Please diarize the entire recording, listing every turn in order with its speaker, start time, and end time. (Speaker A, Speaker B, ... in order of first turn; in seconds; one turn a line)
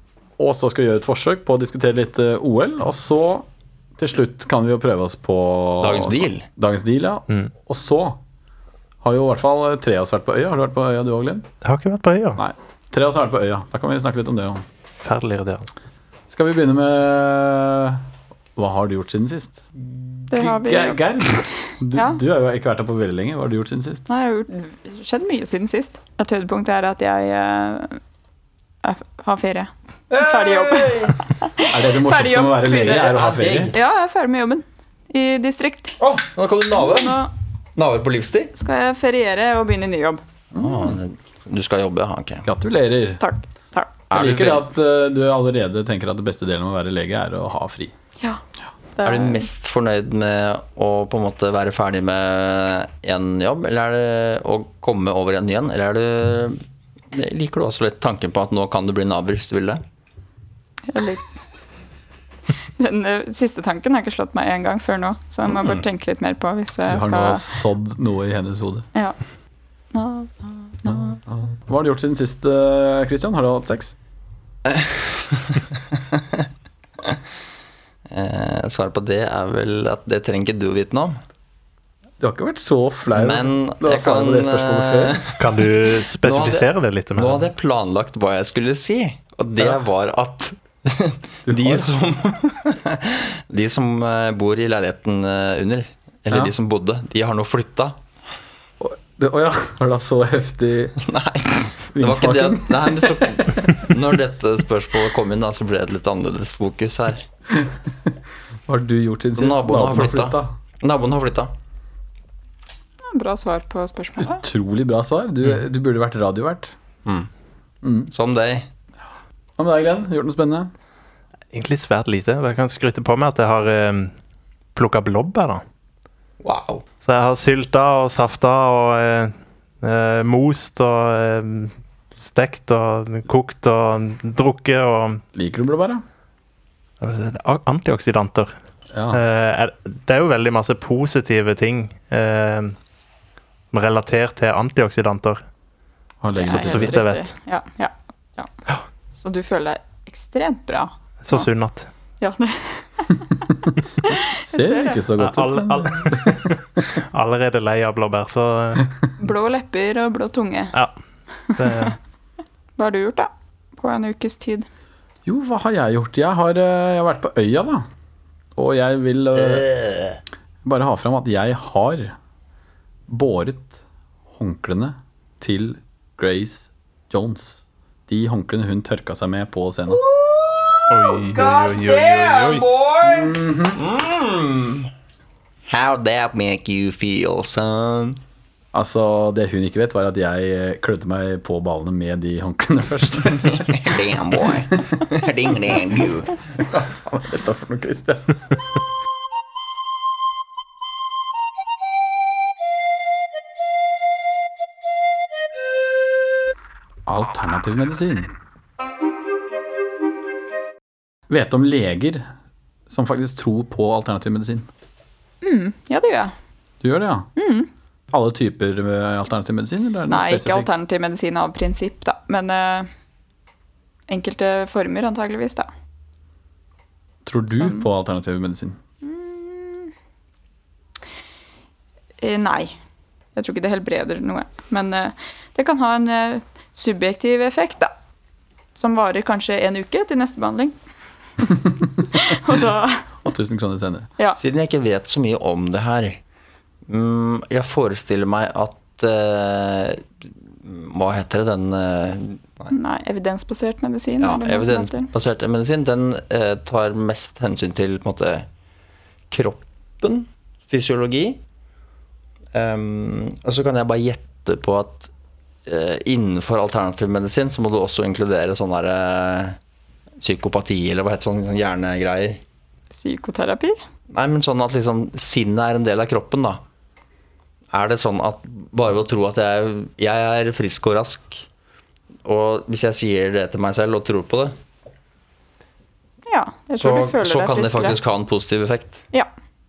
Speaker A: 0.4-8.2
Speaker B: 5.8-6.4
Speaker A: 9.0-11.5
Speaker C: 11.6-12.4
Speaker A: 12.3-14.6
Speaker C: 15.0-15.7
Speaker A: 16.3-18.0
Speaker A: 18.6-19.7
Speaker A: 20.2-24.0
Speaker D: 20.3-22.2
Speaker D: 24.1-28.0
Speaker D: 28.8-36.0
Speaker B: 30.1-31.1
Speaker A: 31.7-33.7
Speaker B: 32.6-33.7
Speaker B: 36.0-37.2
Speaker D: 36.7-37.3
Speaker B: 37.8-38.5
Speaker D: 38.5-40.2
Speaker A: 40.5-41.0
Speaker B: 40.5-42.4
Speaker A: 42.4-43.2
Speaker D: 43.2-43.9
Speaker B: 44.1-44.6
Speaker A: 44.1-47.9
Speaker D: 49.0-49.5
Speaker B: 49.0-56.6
Speaker B: 57.1-59.8
Speaker D: 60.9-61.2
Speaker D: 62.8-67.5
Speaker A: 66.9-68.9
Speaker D: 69.9-71.2
Speaker A: 70.8-74.0
Speaker B: 74.7-76.5
Speaker B: 78.1-81.2
Speaker A: 82.2-85.2
Speaker B: 83.1-85.4
Speaker C: 85.4-87.5
Speaker B: 86.2-98.0
Speaker A: 91.5-91.9
Speaker A: 98.8-101.0
Speaker B: 101.0-107.2
Speaker A: 101.9-103.9
Speaker A: 107.5-108.1
Speaker A: 108.7-110.5
Speaker B: 109.3-111.5
Speaker D: 113.1-114.4
Speaker A: 114.2-116.7
Speaker A: 117.8-118.1
Speaker B: 118.1-118.7
Speaker A: 119.6-120.7
Speaker C: 121.5-124.1
Speaker C: 124.7-125.6
Speaker B: 126.4-126.8
Speaker C: 127.0-135.2
Speaker A: 135.3-136.0
Speaker C: 137.0-138.5
Speaker A: 138.9-139.2
Speaker C: 139.1-142.8
Speaker C: 143.7-145.4
Speaker A: 146.2-146.9
Speaker D: 146.4-148.5
Speaker C: 146.4-147.3
Speaker D: 149.1-151.5
Speaker C: 151.2-151.9
Speaker D: 152.2-155.0
Speaker A: 154.0-156.8
Speaker C: 155.2-158.9
Speaker D: 159.2-160.7
Speaker D: 161.5-161.9
Speaker C: 161.6-161.9
Speaker D: 162.8-164.7
Speaker A: 165.2-167.8
Speaker A: 168.6-169.7
Speaker B: 169.3-170.2
Speaker A: 170.6-172.1
Speaker A: 173.1-180.0
Speaker B: 179.9-184.9
Speaker C: 180.9-182.7
Speaker A: 183.0-183.8
Speaker B: 185.7-188.2
Speaker A: 188.7-194.0
Speaker B: 193.4-196.3
Speaker A: 194.7-195.0
Speaker A: 196.6-198.6
Speaker A: 207.1-208.3
Speaker A: 211.3-212.3
Speaker A: 212.9-214.7
Speaker D: 215.4-216.3
Speaker A: 216.8-217.3
Speaker D: 217.3-217.7
Speaker A: 218.1-220.7
Speaker D: 220.1-222.9
Speaker D: 224.1-225.7
Speaker A: 227.2-228.8
Speaker D: 227.5-227.9
Speaker D: 229.0-229.9
Speaker D: 232.2-232.8
Speaker D: 233.3-237.9
Speaker D: 238.7-240.7
Speaker D: 242.0-243.1
Speaker A: 243.2-244.1
Speaker B: 244.4-246.2
Speaker B: 246.9-252.7
Speaker D: 252.7-255.1
Speaker B: 254.2-258.5
Speaker B: 259.3-261.4
Speaker B: 262.5-265.1
Speaker B: 265.6-269.6
Speaker B: 270.2-272.4
Speaker D: 272.9-273.8
Speaker B: 274.1-276.6
Speaker B: 277.7-281.4
Speaker B: 282.2-284.6
Speaker D: 286.3-288.0
Speaker B: 286.8-289.0